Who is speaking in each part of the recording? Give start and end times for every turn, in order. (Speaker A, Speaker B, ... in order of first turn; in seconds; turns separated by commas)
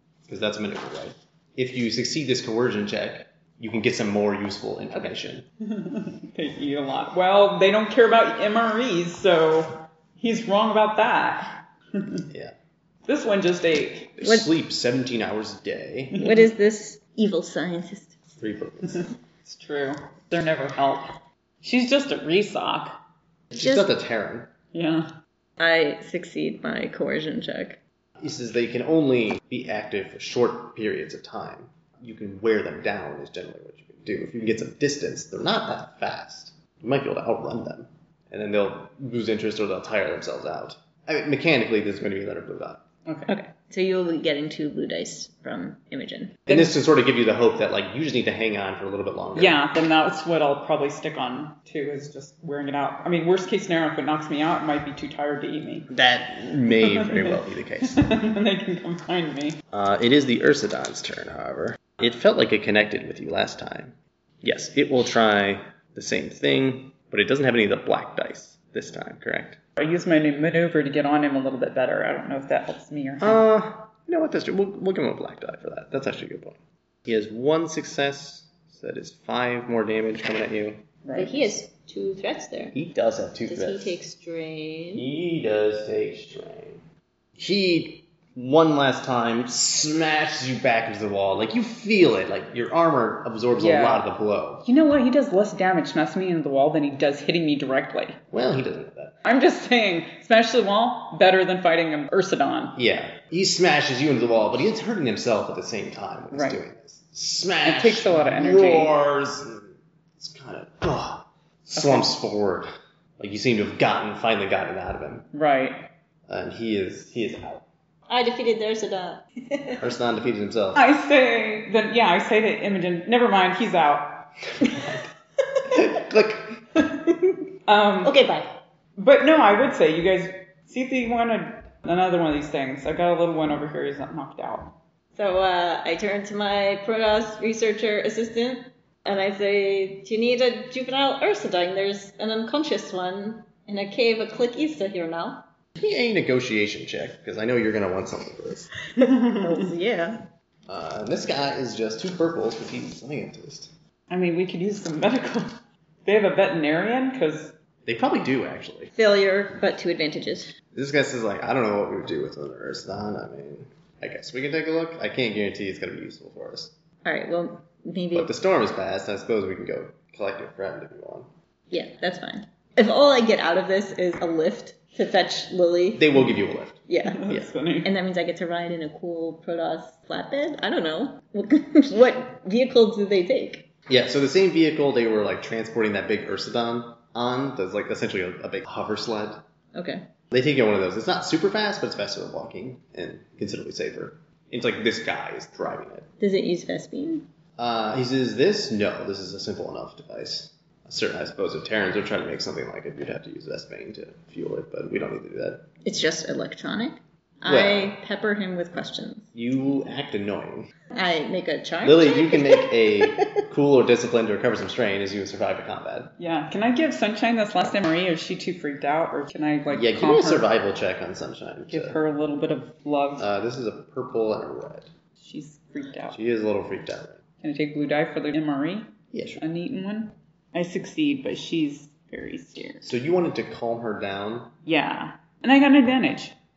Speaker A: 0.2-5.5, Speaker B: 5.6-12.3, Speaker A: 12.3-12.6, Speaker B: 13.1-14.2, Speaker A: 14.2-16.2, Speaker C: 14.2-14.5, Speaker B: 16.1-16.5, Speaker C: 16.2-18.2, Speaker A: 18.4-19.1, Speaker B: 18.9-21.1, Speaker B: 21.6-23.0, Speaker A: 23.5-24.5, Speaker C: 23.6-23.9, Speaker B: 24.7-25.1, Speaker C: 25.6-27.8, Speaker A: 28.2-42.8, Speaker B: 43.1-43.3, Speaker C: 43.3-46.4, Speaker A: 46.5-49.6, Speaker B: 46.5-46.8, Speaker B: 49.4-55.9, Speaker A: 55.9-58.1, Speaker B: 56.7-59.6, Speaker A: 59.7-69.6, Speaker B: 69.8-73.4, Speaker A: 73.2-80.8, Speaker B: 81.0-81.5, Speaker C: 81.1-82.8, Speaker A: 82.7-84.0, Speaker C: 83.5-85.1, Speaker A: 84.9-86.8, Speaker A: 87.4-94.7, Speaker B: 93.6-94.1, Speaker B: 94.6-98.2, Speaker A: 98.3-99.2, Speaker B: 99.2-102.8, Speaker A: 102.8-112.7, Speaker B: 106.3-106.6, Speaker B: 107.6-108.9, Speaker B: 111.8-112.1, Speaker A: 113.2-115.3, Speaker B: 115.3-115.8, Speaker A: 116.3-117.7, Speaker C: 118.1-119.8, Speaker A: 119.8-120.8, Speaker B: 120.8-124.3, Speaker A: 124.6-125.0, Speaker A: 125.7-126.6, Speaker C: 126.8-127.4, Speaker B: 127.7-128.2, Speaker C: 128.0-128.5, Speaker B: 129.0-134.8, Speaker C: 135.2-145.4, Speaker A: 145.8-148.7, Speaker B: 149.0-149.7, Speaker C: 149.0-150.2, Speaker A: 150.7-153.7, Speaker B: 154.1-157.6, Speaker A: 157.9-158.9, Speaker C: 159.0-160.5, Speaker A: 160.7-166.7, Speaker C: 167.1-168.3, Speaker A: 168.1-171.3, Speaker C: 171.7-176.3, Speaker A: 176.0-177.5, Speaker C: 176.9-177.3, Speaker B: 177.0-177.9, Speaker C: 177.8-183.7, Speaker A: 183.9-189.4, Speaker C: 189.8-190.0, Speaker A: 190.3-196.1, Speaker C: 196.2-197.3, Speaker A: 197.6-205.7, Speaker C: 205.8-209.3, Speaker A: 207.4-208.0, Speaker A: 209.3-210.7, Speaker C: 210.9-213.4, Speaker A: 211.8-216.1, Speaker B: 216.2-220.5, Speaker A: 219.7-222.0, Speaker B: 221.7-223.3, Speaker A: 223.2-224.9, Speaker B: 225.2-226.2, Speaker A: 226.1-227.2, Speaker B: 227.4-232.9, Speaker A: 229.1-229.4, Speaker A: 232.8-234.6, Speaker B: 234.7-236.3